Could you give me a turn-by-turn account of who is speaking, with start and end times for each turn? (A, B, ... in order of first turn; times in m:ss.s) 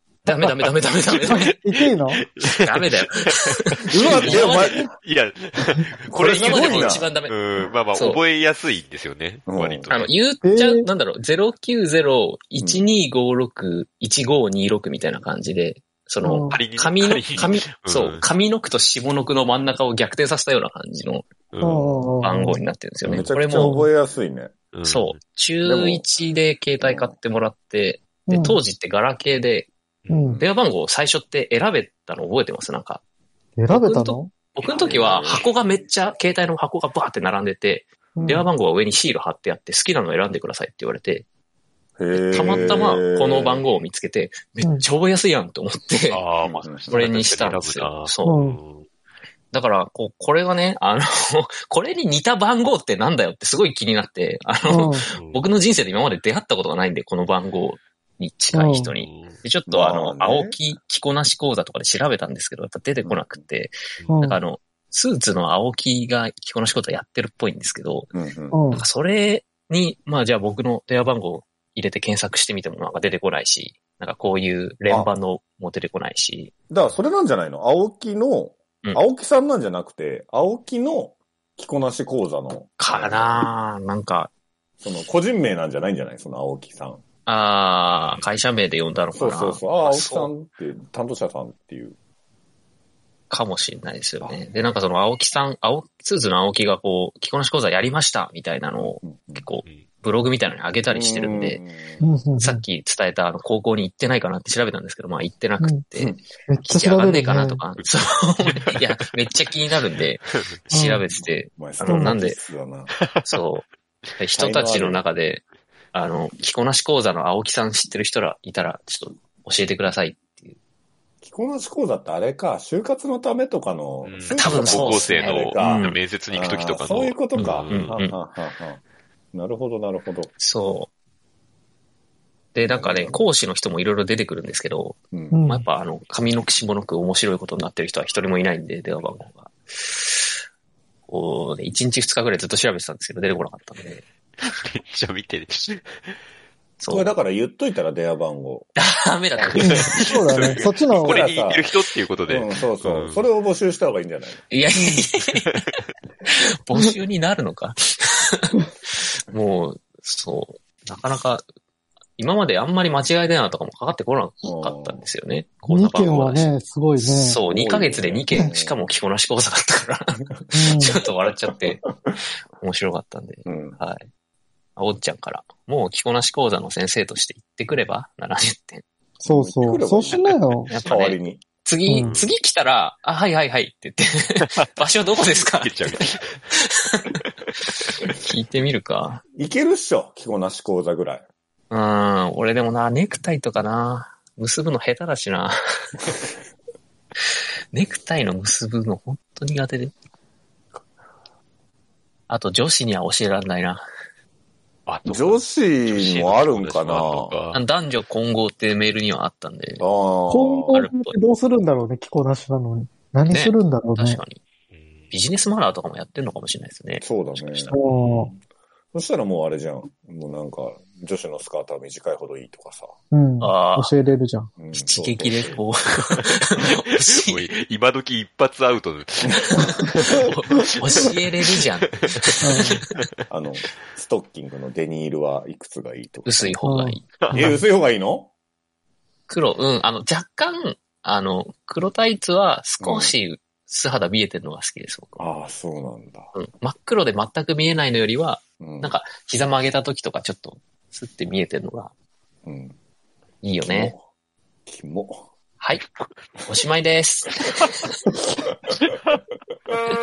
0:00.2-0:01.6 A
0:01.1-0:02.2 B
0:01.9-0:02.9 C
0:02.5-0:04.6 A
0:03.9-0:04.9 D
0:03.9-0:10.1 C
0:03.9-0:04.9 B
0:06.1-0:07.1 D
0:06.2-0:07.3 A
0:07.9-0:08.2 A
0:09.5-0:09.9 D
0:09.9-0:21.3 A
0:10.4-0:10.9 B
0:12.6-0:12.9 D
0:16.2-0:16.6 B
0:16.5-0:18.2 C
0:21.5-0:22.1 C
0:21.6-0:22.6 B
0:22.2-0:23.8 A
0:23.0-0:24.5 D
0:23.6-0:23.9 B
0:24.7-0:25.2 C
0:24.8-0:29.7 A
0:25.6-0:26.0 D
0:26.8-0:27.2 D
0:28.3-0:28.6 B
0:30.1-0:30.4 B
0:30.2-0:30.5 D
0:30.4-0:33.0 A
0:33.6-0:34.3 B
0:33.7-0:41.3 A
0:34.6-0:35.4 D
0:38.2-0:38.5 B
0:42.0-0:43.7 D
0:42.1-0:48.4 A
0:46.1-0:48.9 C
0:46.6-0:47.0 D
0:48.2-0:48.6 B
0:49.5-1:08.1 A
0:54.7-0:55.0 B
0:55.1-0:55.4 C
0:58.5-0:58.9 B
0:59.0-0:59.4 C
0:59.7-1:00.6 D
1:03.0-1:03.4 D
1:04.1-1:04.4 B
1:08.1-1:08.6 D
1:08.5-1:08.8 B
1:08.7-1:16.5 A
1:16.7-1:23.5 D
1:22.8-1:24.3 A
1:24.8-1:27.0 D
1:27.3-1:30.3 A
1:27.9-1:28.3 C
1:29.1-1:32.0 D
1:33.3-1:41.6 A
1:38.8-1:39.5 D
1:40.9-1:42.1 D
1:42.0-1:42.6 B
1:42.4-1:46.1 A
1:46.5-1:47.6 B
1:46.7-1:52.4 A
1:48.4-1:48.8 C
1:50.7-1:51.0 B
1:51.6-1:52.9 D
1:51.8-1:52.2 B
1:53.2-1:53.7 A
1:54.2-2:00.6 A
1:54.4-1:55.0 D
2:01.2-2:08.8 D
2:04.0-2:08.0 C
2:04.4-2:06.0 A
2:07.7-2:08.2 A
2:09.3-2:10.3 D
2:10.4-2:10.9 A
2:12.5-2:20.3 A
2:12.6-2:13.2 D
2:15.1-2:15.4 D
2:15.3-2:15.7 B
2:21.1-2:24.0 A
2:24.4-2:25.9 C
2:26.8-2:27.2 A
2:26.9-2:28.7 D
2:28.8-2:30.1 A
2:29.5-2:33.2 C
2:29.6-2:31.3 B
2:31.0-2:31.7 D
2:32.3-2:34.4 D
2:34.5-2:35.5 A
2:34.8-2:35.0 B
2:36.3-2:38.6 A
2:39.3-2:41.4 A
2:42.2-2:51.8 A
2:44.4-2:45.0 D
2:45.7-2:47.4 B
2:47.5-2:48.8 D
2:50.5-2:51.0 B
2:52.5-2:54.1 A
2:53.5-2:53.8 D
2:54.8-2:58.8 A
2:59.2-3:00.7 B
2:59.3-3:01.4 D
3:00.7-3:06.0 A
3:02.0-3:02.3 C
3:05.4-3:06.4 C
3:06.6-3:07.1 A
3:08.2-3:09.2 A
3:09.4-3:11.2 D
3:11.7-3:15.5 A
3:17.7-3:19.9 A
3:22.3-3:23.8 A
3:24.9-3:27.6 C
3:25.1-3:27.4 D
3:27.5-3:29.8 A
3:29.8-3:30.8 D
3:30.3-3:34.2 B
3:30.7-3:31.2 A
3:33.3-3:34.4 A
3:34.7-3:35.1 C
3:35.1-3:37.8 A
3:37.0-3:38.3 D
3:37.7-3:38.3 B
3:38.9-3:42.9 D
3:43.1-3:44.5 B
3:43.4-3:43.9 A
3:44.6-3:45.6 D
3:44.7-3:47.5 A
3:46.9-3:52.2 C
3:49.5-3:52.8 A
3:52.4-3:52.8 B
3:53.3-3:56.6 D
3:56.3-3:57.0 A
3:56.6-3:57.5 B
3:57.2-3:57.5 C
3:57.3-3:58.3 D
3:59.3-4:05.2 A
4:02.8-4:03.1 D
4:05.2-4:06.3 D
4:06.4-4:11.9 A
4:08.6-4:09.0 D
4:12.5-4:12.8 D
4:13.4-4:13.9 A
4:13.7-4:14.0 D
4:14.7-4:15.3 D
4:16.5-4:17.7 A